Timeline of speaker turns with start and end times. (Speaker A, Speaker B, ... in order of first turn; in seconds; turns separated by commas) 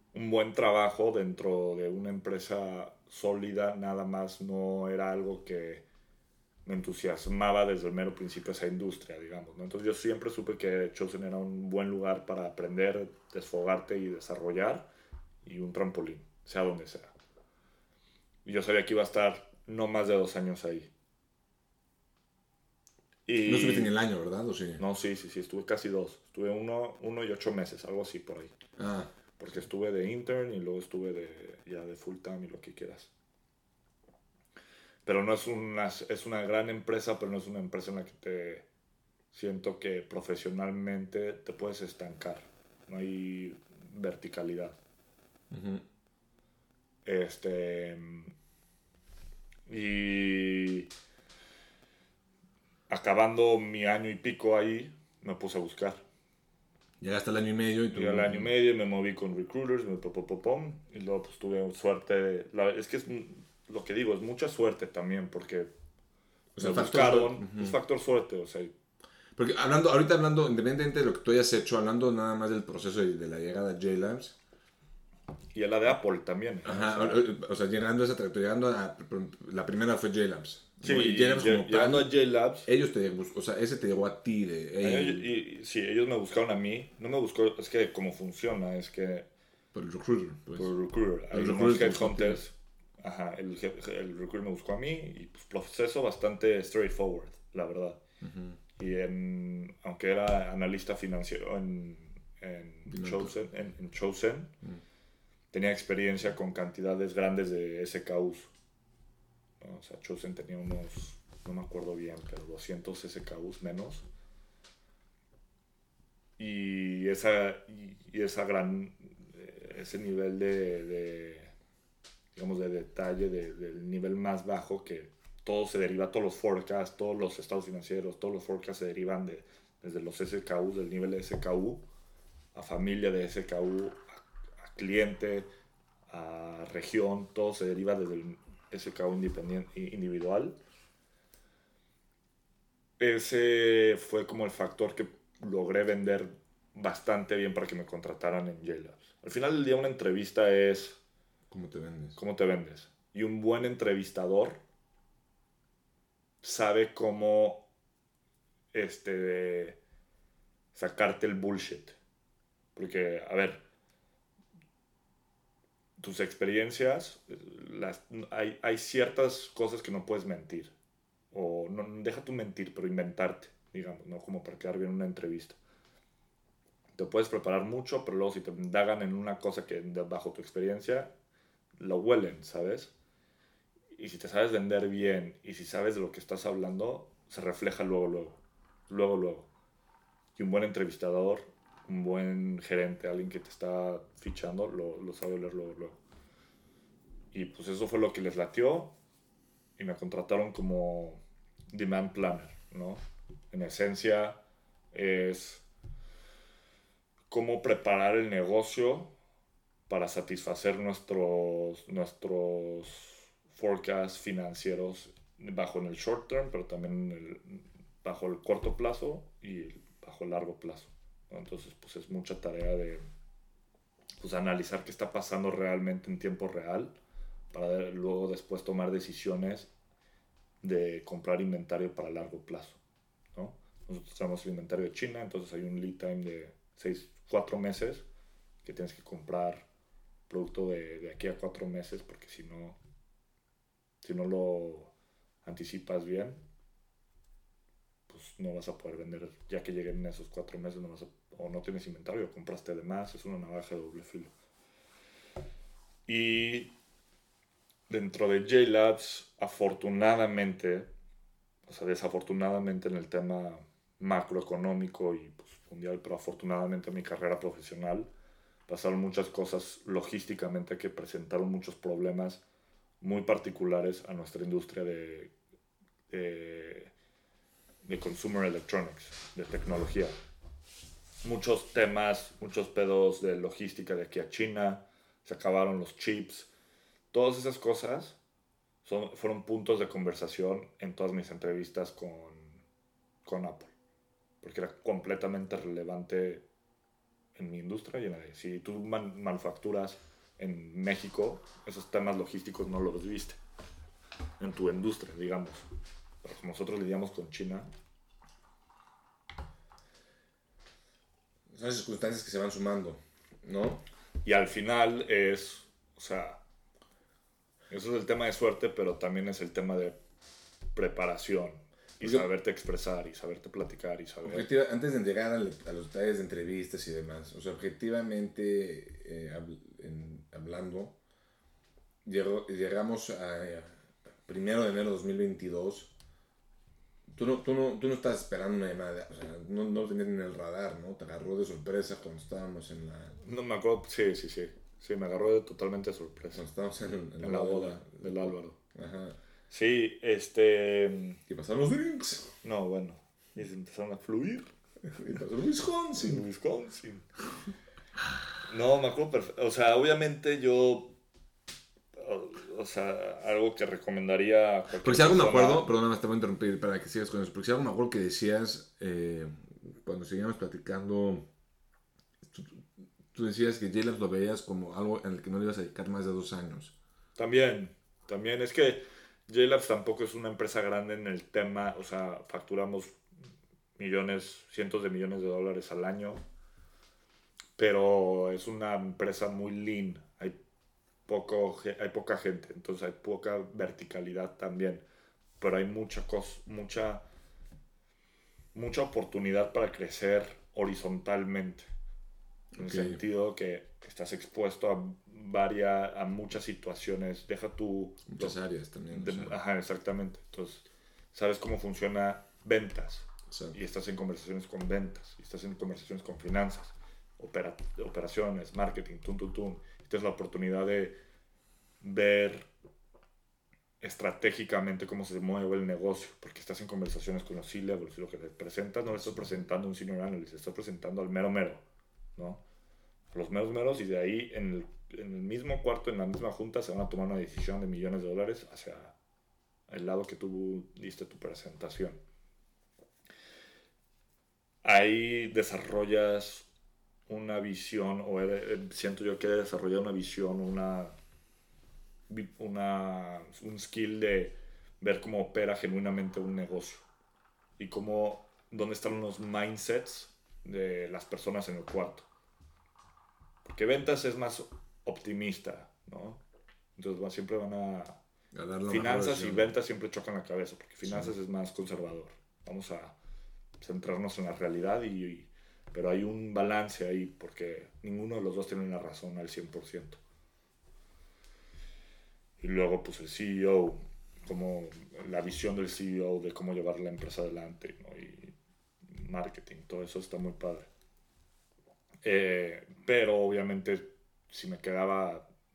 Speaker A: 0.1-5.8, Speaker A: 6.6-14.9, Speaker A: 15.4-17.1, Speaker A: 18.4-20.9, Speaker A: 23.2-23.9, Speaker B: 23.4-24.8, Speaker A: 24.8-28.5, Speaker B: 28.8-29.1, Speaker A: 29.4-33.1, Speaker A: 35.0-38.6, Speaker A: 39.3-44.8, Speaker B: 45.5-45.8, Speaker A: 47.0-48.3, Speaker A: 49.7-50.9, Speaker A: 52.9-56.0, Speaker B: 57.0-58.5, Speaker A: 57.9-65.7, Speaker B: 66.6-67.8, Speaker A: 66.6-68.7, Speaker B: 69.4-74.4, Speaker A: 75.5-77.2, Speaker B: 76.6-82.1, Speaker A: 80.8-82.7, Speaker B: 82.6-85.3, Speaker A: 84.8-89.3, Speaker B: 89.7-90.7, Speaker A: 90.5-98.0, Speaker B: 91.3-92.4, Speaker B: 98.2-98.6, Speaker A: 98.8-104.5, Speaker B: 102.9-103.3, Speaker A: 105.5-108.5, Speaker A: 109.6-114.0, Speaker A: 116.4-121.5, Speaker A: 122.3-131.8, Speaker A: 132.5-135.5, Speaker A: 136.1-140.6, Speaker A: 143.0-151.0, Speaker B: 151.5-152.2, Speaker A: 152.2-154.6, Speaker A: 156.4-157.7, Speaker A: 158.7-159.8, Speaker A: 160.7-162.0, Speaker A: 162.8-163.6, Speaker A: 166.0-170.7, Speaker A: 171.3-175.6, Speaker A: 177.0-181.1, Speaker A: 181.8-182.9, Speaker A: 183.9-189.5, Speaker A: 190.4-196.0, Speaker A: 197.3-198.9, Speaker A: 199.8-204.4, Speaker A: 204.9-205.6, Speaker A: 207.3-209.1, Speaker A: 209.9-223.0, Speaker A: 224.2-226.9, Speaker A: 227.5-229.7, Speaker A: 230.6-232.8, Speaker A: 233.3-238.0, Speaker A: 238.6-239.7, Speaker A: 240.3-242.8, Speaker A: 244.0-244.9, Speaker A: 245.4-246.4, Speaker A: 248.1-254.3, Speaker A: 256.1-256.7, Speaker A: 257.9-260.9, Speaker A: 261.6-268.1, Speaker A: 268.7-272.4, Speaker A: 273.0-275.3, Speaker A: 276.1-276.9, Speaker A: 277.8-280.1, Speaker A: 281.2-286.5, Speaker A: 287.1-288.2, Speaker A: 288.9-292.6, Speaker A: 293.2-293.8, Speaker A: 294.4-296.4, Speaker A: 297.4-303.4, Speaker A: 304.4-305.7, Speaker A: 306.2-307.7, Speaker B: 311.5-313.8, Speaker A: 314.2-316.4, Speaker A: 317.7-320.0, Speaker A: 320.7-324.5, Speaker B: 324.2-331.0, Speaker B: 332.0-335.9, Speaker B: 337.1-343.2, Speaker A: 343.2-346.4, Speaker B: 346.3-349.2, Speaker A: 347.2-348.6, Speaker A: 349.5-351.2, Speaker B: 351.3-352.4, Speaker A: 352.4-354.5, Speaker B: 354.8-356.2, Speaker A: 356.0-357.1, Speaker A: 358.5-360.9, Speaker A: 361.9-365.6, Speaker B: 364.8-371.2, Speaker B: 372.3-376.8, Speaker A: 377.2-383.0, Speaker A: 383.8-386.2, Speaker A: 387.6-390.4, Speaker A: 391.1-394.8, Speaker A: 395.4-397.0, Speaker A: 398.5-401.7, Speaker B: 402.5-403.0, Speaker A: 402.6-408.4, Speaker B: 408.1-409.4, Speaker A: 408.9-420.9, Speaker B: 413.3-413.6, Speaker A: 421.8-422.5, Speaker A: 423.8-431.6, Speaker A: 432.1-432.4, Speaker A: 433.1-438.9, Speaker A: 439.7-442.0, Speaker A: 444.6-446.5, Speaker A: 447.1-450.9, Speaker A: 452.1-456.9, Speaker A: 457.6-462.1, Speaker A: 463.4-466.2, Speaker A: 466.8-468.0, Speaker B: 468.3-469.5, Speaker A: 468.7-472.9, Speaker B: 470.9-471.1, Speaker A: 473.6-480.0, Speaker A: 482.4-488.4, Speaker A: 488.9-490.7, Speaker A: 492.0-495.3